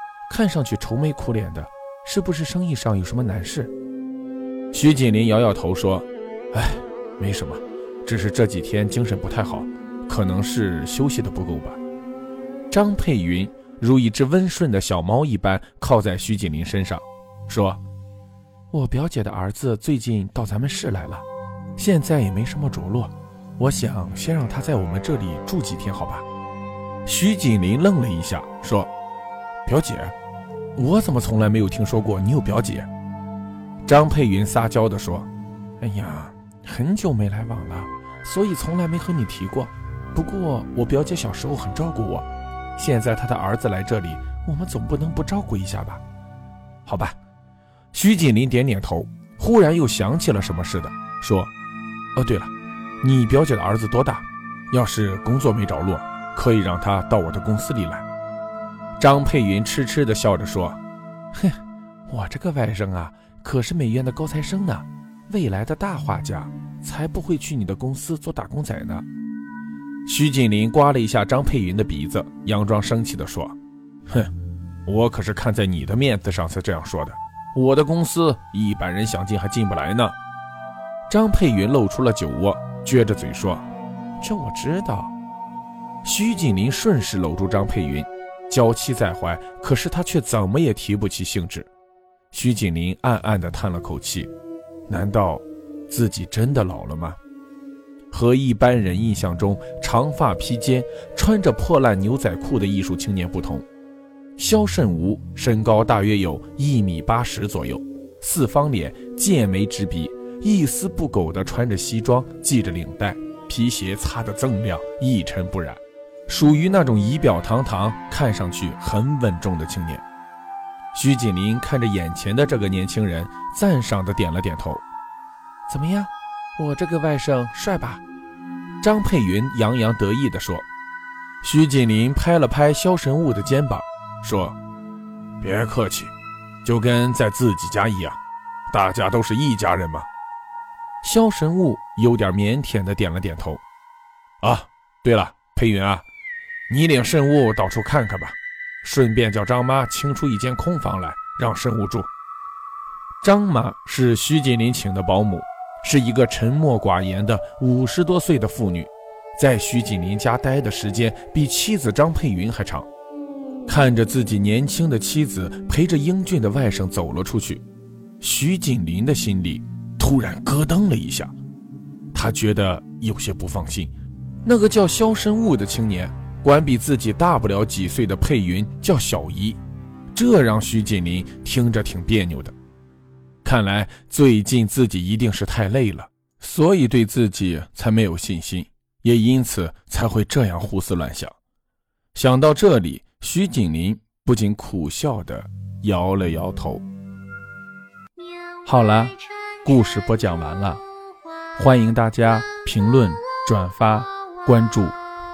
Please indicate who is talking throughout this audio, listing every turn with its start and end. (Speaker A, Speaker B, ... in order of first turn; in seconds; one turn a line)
Speaker A: 0.3-3.7
Speaker A: 4.7-11.8
Speaker A: 12.7-17.8
Speaker A: 18.7-21.2
Speaker A: 21.8-26.2
Speaker A: 27.1-28.9
Speaker A: 29.6-30.1
Speaker A: 30.8-32.9
Speaker A: 33.9-35.3
Speaker A: 35.8-46.0
Speaker A: 46.9-47.2
Speaker A: 47.9-51.5
Speaker A: 52.2-58.1
Speaker A: 59.0-60.8
Speaker A: 61.3-69.1
Speaker A: 70.1-73.6
Speaker A: 74.9-80.2
Speaker A: 81.1-83.7
Speaker A: 84.2-85.2
Speaker A: 86.0-91.7
Speaker A: 92.3-94.3
Speaker A: 94.9-97.2
Speaker A: 98.1-103.7
Speaker A: 104.4-120.0
Speaker A: 120.9-124.8
Speaker A: 125.7-128.0
Speaker A: 128.8-130.7
Speaker A: 131.4-134.6
Speaker A: 135.4-136.1
Speaker A: 136.6-138.2
Speaker A: 138.7-140.1
Speaker A: 141.0-143.6
Speaker A: 144.4-146.1
Speaker A: 146.7-152.1
Speaker A: 153.2-162.9
Speaker A: 163.7-167.6
Speaker A: 168.2-171.3
Speaker A: 172.1-173.9
Speaker A: 174.4-179.6
Speaker A: 180.1-182.5
Speaker A: 183.4-191.4
Speaker A: 192.2-196.8
Speaker A: 198.7-200.8
Speaker A: 201.6-205.0